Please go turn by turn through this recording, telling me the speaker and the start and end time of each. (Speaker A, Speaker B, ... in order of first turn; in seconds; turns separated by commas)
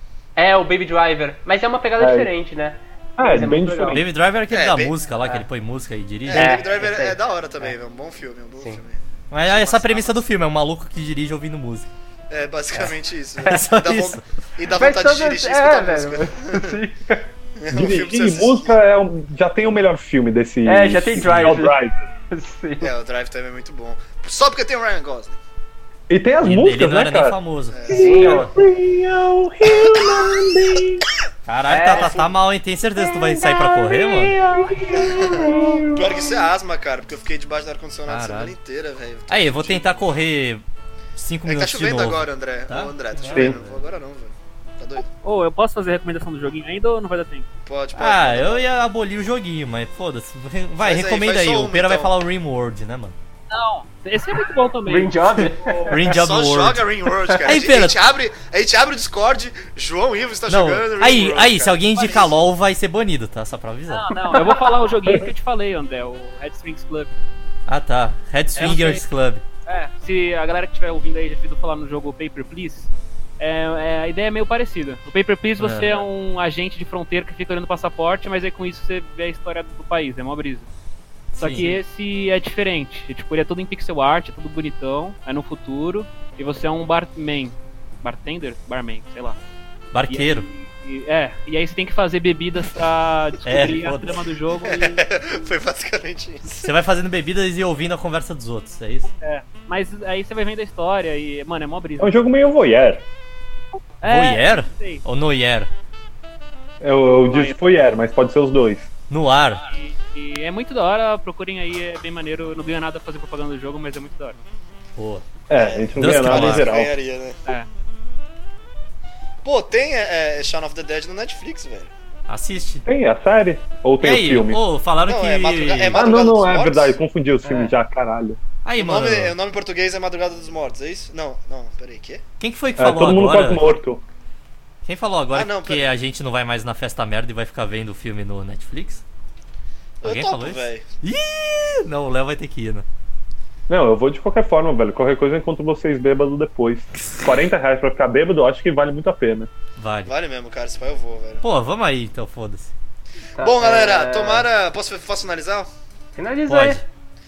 Speaker A: 0.4-4.0, Speaker B: 2.0-2.3, Speaker B: 3.2-4.1, Speaker C: 3.9-6.6, Speaker D: 4.5-4.9, Speaker D: 6.3-10.2, Speaker A: 6.3-7.7, Speaker C: 9.3-11.9, Speaker D: 12.3-16.8, Speaker A: 13.4-13.6, Speaker C: 13.5-14.2, Speaker A: 14.7-17.2, Speaker D: 17.6-18.7, Speaker B: 17.7-22.1, Speaker A: 20.6-21.8, Speaker A: 22.3-22.9, Speaker D: 22.8-25.4, Speaker B: 26.1-31.1, Speaker C: 26.4-28.5, Speaker D: 27.7-28.5, Speaker A: 27.9-28.7, Speaker D: 29.8-30.5, Speaker C: 31.5-34.4, Speaker A: 31.7-32.2, Speaker D: 31.9-32.3, Speaker B: 33.1-36.3, Speaker A: 33.5-33.7, Speaker A: 34.5-35.8, Speaker D: 35.0-40.1, Speaker C: 38.1-38.5, Speaker C: 39.3-40.6, Speaker C: 41.1-43.8, Speaker D: 41.5-45.1, Speaker B: 43.3-43.6, Speaker E: 45.2-47.5, Speaker D: 47.6-48.6, Speaker C: 47.9-53.1, Speaker D: 50.8-52.1, Speaker E: 53.5-56.1, Speaker A: 54.9-55.9, Speaker C: 55.9-56.9, Speaker D: 56.1-62.4, Speaker C: 57.4-58.0, Speaker C: 60.5-64.3, Speaker E: 62.0-62.2, Speaker E: 63.9-67.1, Speaker A: 64.3-64.6, Speaker C: 67.7-69.4, Speaker E: 68.6-69.0, Speaker E: 69.7-80.7, Speaker C: 75.6-76.0, Speaker C: 81.3-81.7, Speaker E: 81.4-89.4, Speaker C: 89.9-90.5, Speaker E: 90.1-95.0, Speaker C: 93.5-94.2, Speaker D: 94.6-96.7, Speaker C: 96.6-99.1, Speaker E: 99.2-102.2, Speaker B: 102.0-103.0, Speaker E: 104.0-105.0, Speaker C: 104.0-105.7, Speaker B: 106.8-108.9, Speaker E: 107.3-107.6, Speaker C: 109.1-109.6, Speaker E: 109.6-114.4, Speaker C: 115.0-115.3, Speaker B: 115.5-116.9, Speaker D: 115.5-117.4, Speaker C: 116.0-116.8, Speaker D: 119.4-121.9, Speaker C: 122.3-122.9, Speaker B: 122.9-124.6, Speaker C: 124.0-126.0, Speaker D: 125.1-127.0, Speaker B: 125.9-128.4, Speaker A: 127.4-127.7, Speaker C: 128.7-129.4, Speaker D: 128.8-132.2, Speaker C: 132.4-133.7, Speaker B: 132.8-134.0, Speaker C: 134.8-139.0, Speaker D: 135.3-135.9, Speaker D: 140.0-140.8, Speaker C: 140.0-142.9, Speaker B: 143.7-149.5, Speaker C: 149.8-150.1, Speaker D: 150.1-151.4, Speaker C: 151.4-152.7, Speaker A: 153.4-154.5, Speaker D: 153.4-155.7, Speaker A: 156.2-156.8, Speaker C: 156.5-156.8